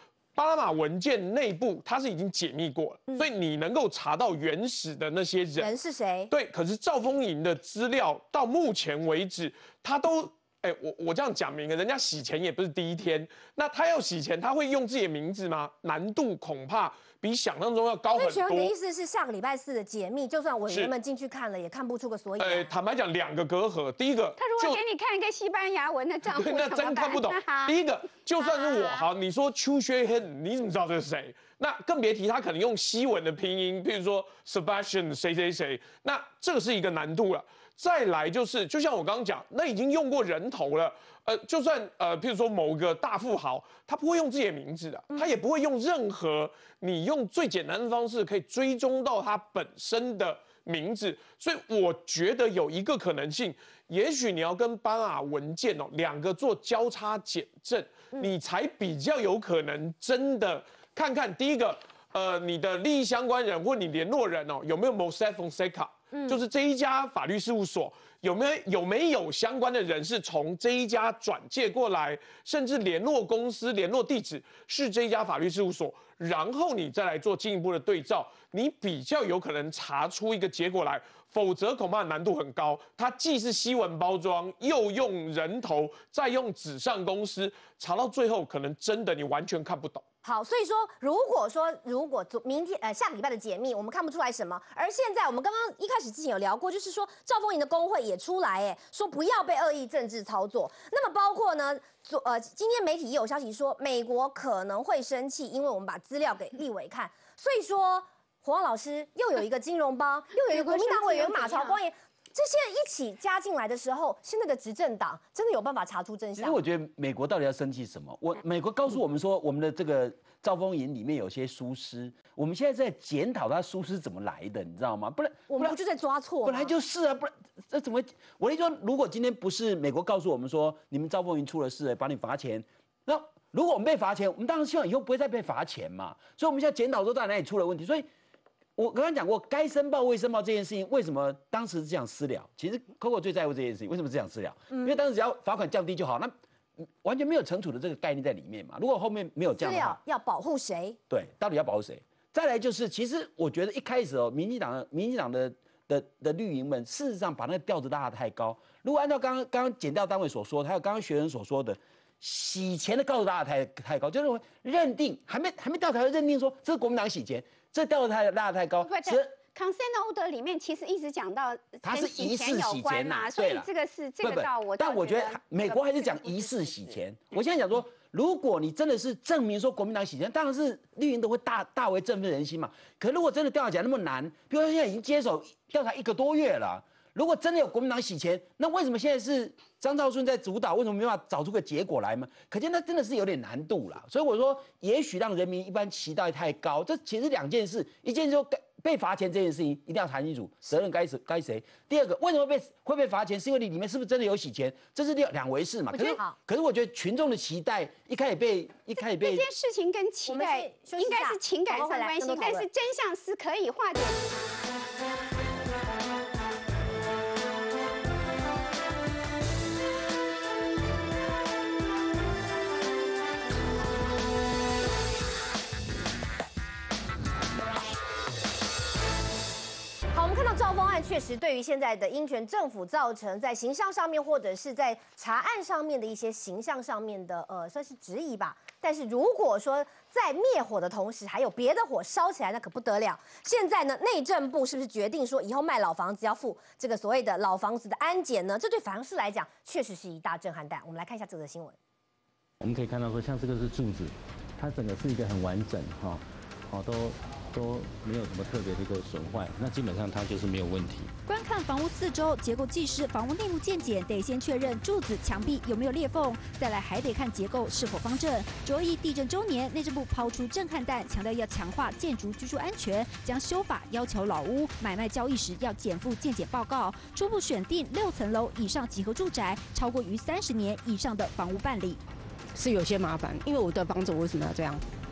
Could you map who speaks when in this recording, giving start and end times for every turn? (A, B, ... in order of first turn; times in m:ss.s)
0:00.3-0:05.7 A
0:05.6-0:06.3 B
0:06.3-0:18.7 A
0:18.1-0:22.7 B
0:22.4-0:24.8 A
0:24.4-0:27.8 C
0:26.3-1:30.0 A
0:28.4-0:29.1 C
0:45.1-0:45.4 B
1:06.1-1:06.4 B
1:30.2-1:56.6 B
1:50.5-1:51.8 C
1:56.4-2:05.8 D
2:05.5-2:06.7 B
2:06.4-2:18.1 D
2:18.8-2:26.3 D
2:27.0-2:30.0 D
2:29.6-2:31.0 B
2:31.1-2:49.3 D
2:48.8-2:57.0 C
2:51.8-2:53.7 D
2:54.2-3:29.4 D
3:25.9-3:26.4 B
3:29.0-3:34.2 C
3:30.3-3:32.6 B
3:50.1-4:11.8 B
4:12.6-4:21.1 E
4:21.3-4:42.0 F
4:42.5-4:44.8 G